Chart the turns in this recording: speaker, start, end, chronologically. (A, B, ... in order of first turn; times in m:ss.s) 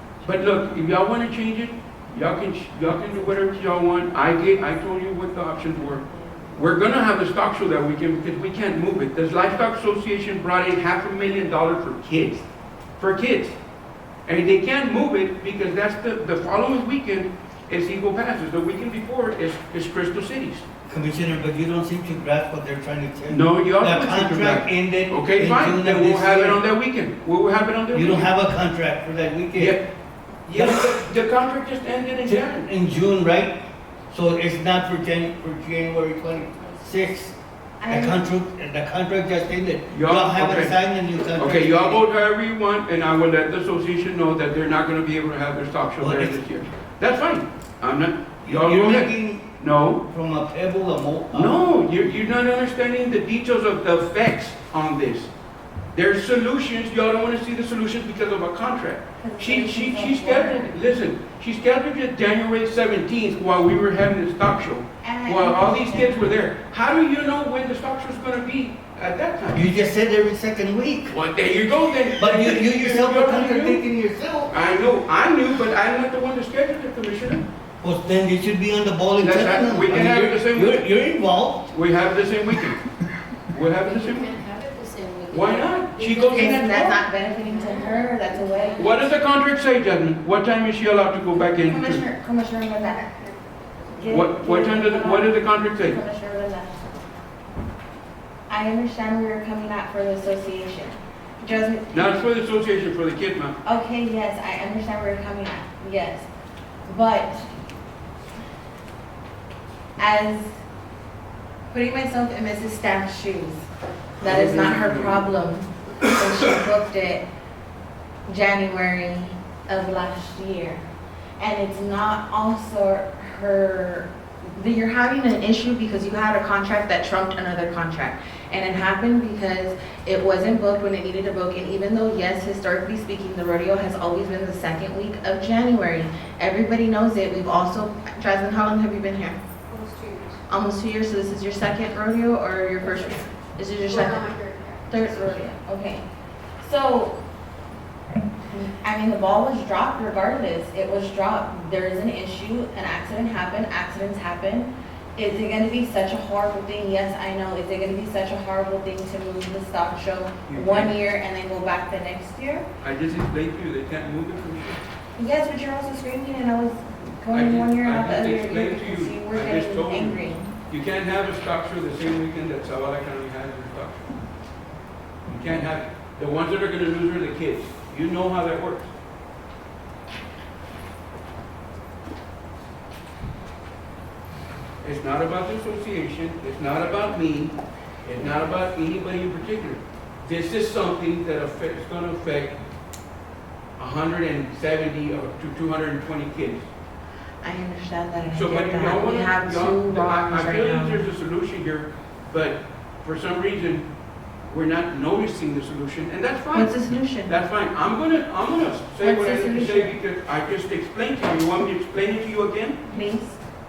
0:00.2-0:12.5 A
0:13.0-0:13.5 A
0:14.2-0:20.6 A
0:20.9-0:26.6 B
0:23.3-0:28.3 A
0:27.9-0:29.8 B
0:29.5-0:29.9 A
0:30.4-0:32.7 A
0:30.5-0:30.9 B
0:32.2-0:33.6 B
0:34.1-0:37.3 B
0:36.3-0:37.2 C
0:37.8-0:38.3 D
0:37.9-0:42.0 B
0:39.9-0:40.7 A
0:41.4-0:50.0 A
0:46.0-0:46.4 B
0:48.4-0:49.5 B
0:50.1-0:51.6 B
0:51.3-0:55.3 A
0:55.9-1:09.7 A
0:59.2-1:00.8 D
1:05.0-1:06.3 D
1:09.5-1:11.2 B
1:11.1-1:13.8 A
1:12.2-1:14.6 B
1:14.5-1:17.4 A
1:17.8-1:21.7 B
1:19.2-1:20.8 A
1:21.7-1:22.8 A
1:23.5-1:24.3 A
1:23.8-1:29.0 C
1:25.3-1:27.0 A
1:26.1-1:28.9 D
1:28.8-1:32.0 A
1:31.6-1:33.2 D
1:33.0-1:34.1 C
1:33.9-1:36.8 D
1:34.1-1:36.0 A
1:38.5-1:42.2 D
1:41.9-1:43.6 A
1:43.6-1:46.3 D
1:46.9-1:47.5 D
1:50.0-1:50.5 D
1:51.7-1:53.7 D
1:54.2-1:57.2 D
1:54.2-1:55.2 A
1:58.3-2:00.8 D
2:01.4-2:19.4 D
2:19.7-2:20.4 C
2:20.5-2:24.3 D
2:22.8-2:25.5 C
2:24.9-2:26.0 D
2:26.6-2:27.2 D
2:28.5-2:42.6 D
2:40.5-2:40.9 A
2:42.8-2:44.8 A
2:45.2-2:50.6 D
2:47.3-2:54.1 A
2:55.2-2:58.9 A
3:04.8-3:12.6 A
3:13.8-3:16.7 A
3:17.4-3:21.0 D
3:18.3-3:23.9 A
3:24.5-3:32.8 A
3:26.5-3:27.3 D
3:29.0-3:30.0 D
3:32.9-3:33.4 D